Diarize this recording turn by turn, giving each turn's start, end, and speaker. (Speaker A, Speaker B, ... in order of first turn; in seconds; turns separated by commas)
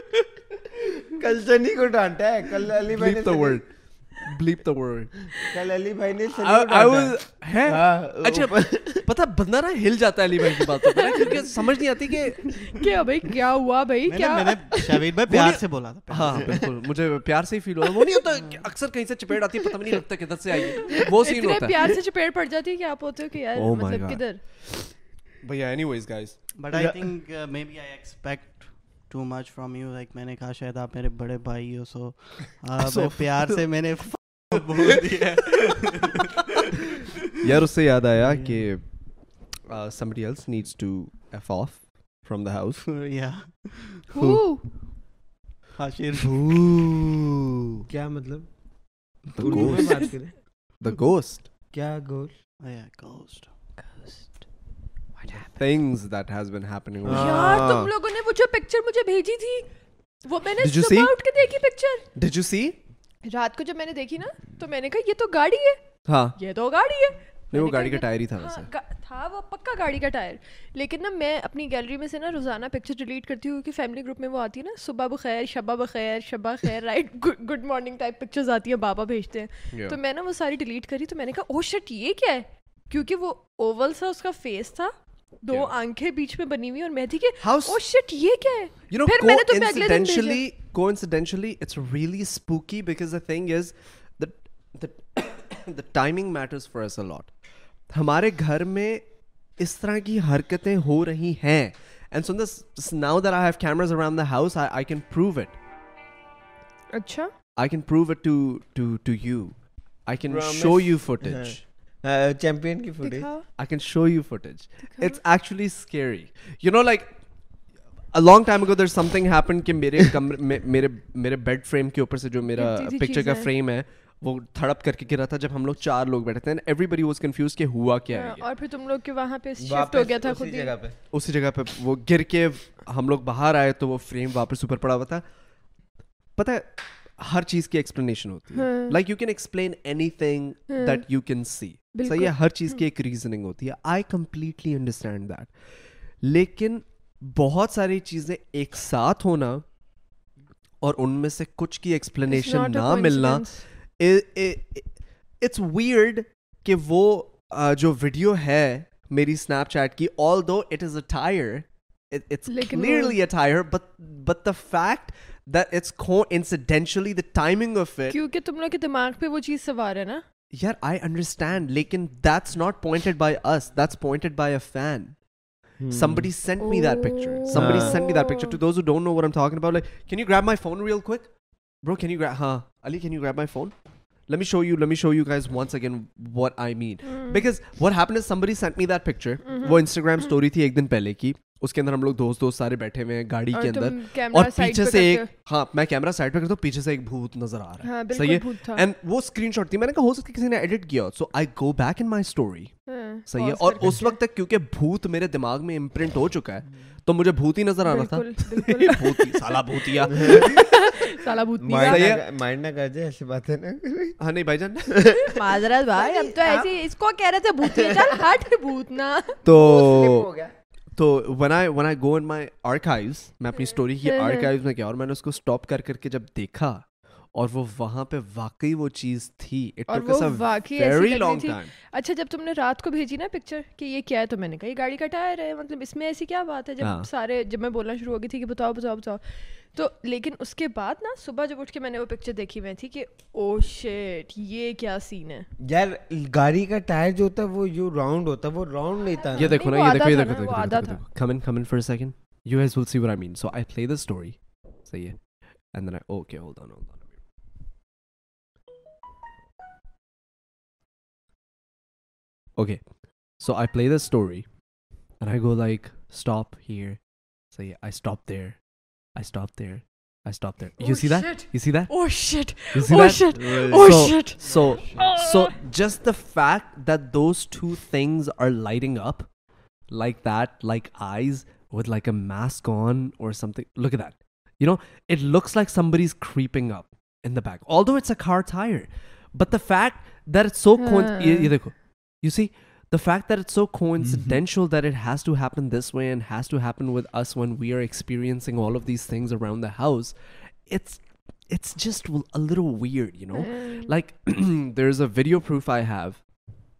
Speaker A: 1.1-3.6, Speaker B: 2.9-5.1, Speaker A: 5.4-9.1, Speaker B: 6.4-12.5, Speaker C: 10.9-11.4, Speaker C: 12.6-14.8, Speaker D: 14.1-16.7, Speaker B: 15.3-21.9, Speaker D: 18.3-18.6, Speaker C: 20.5-24.4, Speaker B: 23.6-24.8, Speaker B: 25.4-26.4, Speaker D: 26.6-37.1, Speaker B: 32.8-33.6, Speaker B: 37.4-38.9, Speaker D: 38.2-38.6, Speaker B: 39.7-42.9, Speaker D: 42.9-44.0, Speaker C: 44.1-44.7, Speaker B: 44.2-44.4, Speaker D: 45.8-47.0, Speaker B: 46.2-47.8, Speaker A: 47.9-48.5, Speaker B: 49.3-50.1, Speaker A: 49.4-50.3, Speaker C: 49.6-50.1, Speaker B: 50.8-51.5, Speaker A: 51.7-52.3, Speaker D: 52.6-53.5, Speaker C: 53.8-54.3, Speaker C: 55.2-55.6, Speaker B: 55.5-57.9, Speaker A: 57.0-57.9, Speaker C: 57.1-59.7, Speaker C: 60.2-62.0, Speaker B: 60.6-61.1, Speaker B: 62.1-62.8, Speaker C: 63.2-65.8, Speaker B: 66.1-66.4, Speaker C: 66.4-90.4, Speaker B: 67.5-68.7, Speaker B: 79.7-80.0, Speaker B: 87.4-87.8, Speaker B: 88.9-97.3, Speaker B: 97.9-99.0, Speaker B: 99.6-105.6, Speaker C: 106.9-107.3, Speaker B: 107.6-111.6, Speaker A: 110.3-113.3, Speaker C: 113.0-113.5, Speaker B: 113.6-117.2, Speaker C: 114.9-115.2, Speaker B: 118.1-128.5, Speaker C: 122.5-123.5, Speaker C: 128.1-130.7, Speaker A: 129.6-131.0, Speaker B: 131.1-135.2, Speaker B: 136.4-145.5, Speaker C: 138.5-139.0, Speaker C: 140.7-141.0, Speaker C: 141.9-142.8, Speaker B: 146.2-149.6, Speaker B: 150.8-168.2, Speaker C: 152.3-153.6, Speaker C: 162.5-163.2, Speaker C: 168.1-170.2, Speaker B: 170.5-175.2, Speaker A: 175.8-176.3, Speaker B: 175.9-181.3, Speaker C: 176.6-178.6, Speaker A: 177.5-178.0, Speaker B: 181.8-183.7, Speaker B: 184.3-202.8, Speaker C: 187.1-187.4, Speaker C: 189.4-189.9, Speaker C: 193.5-195.3, Speaker C: 197.8-198.8, Speaker C: 202.9-204.2, Speaker B: 203.3-211.0, Speaker C: 207.8-212.1, Speaker A: 210.1-210.5, Speaker A: 211.6-214.2, Speaker B: 211.8-212.2, Speaker B: 214.2-215.1, Speaker A: 214.9-215.4, Speaker C: 215.2-219.4, Speaker A: 215.9-216.7, Speaker A: 217.6-218.2, Speaker B: 219.4-220.3, Speaker A: 219.5-220.5, Speaker B: 221.0-231.7, Speaker C: 224.0-224.5, Speaker C: 229.9-245.5, Speaker B: 236.8-237.1, Speaker A: 245.6-249.6, Speaker C: 249.3-251.0, Speaker B: 249.4-255.2, Speaker B: 255.7-257.1, Speaker B: 262.6-262.8, Speaker B: 263.4-264.5, Speaker B: 265.2-267.0, Speaker B: 267.5-268.6, Speaker B: 269.1-271.9, Speaker C: 270.8-275.5, Speaker B: 272.7-279.3, Speaker B: 279.9-300.1, Speaker C: 290.8-291.5, Speaker B: 300.7-306.2, Speaker C: 303.3-303.9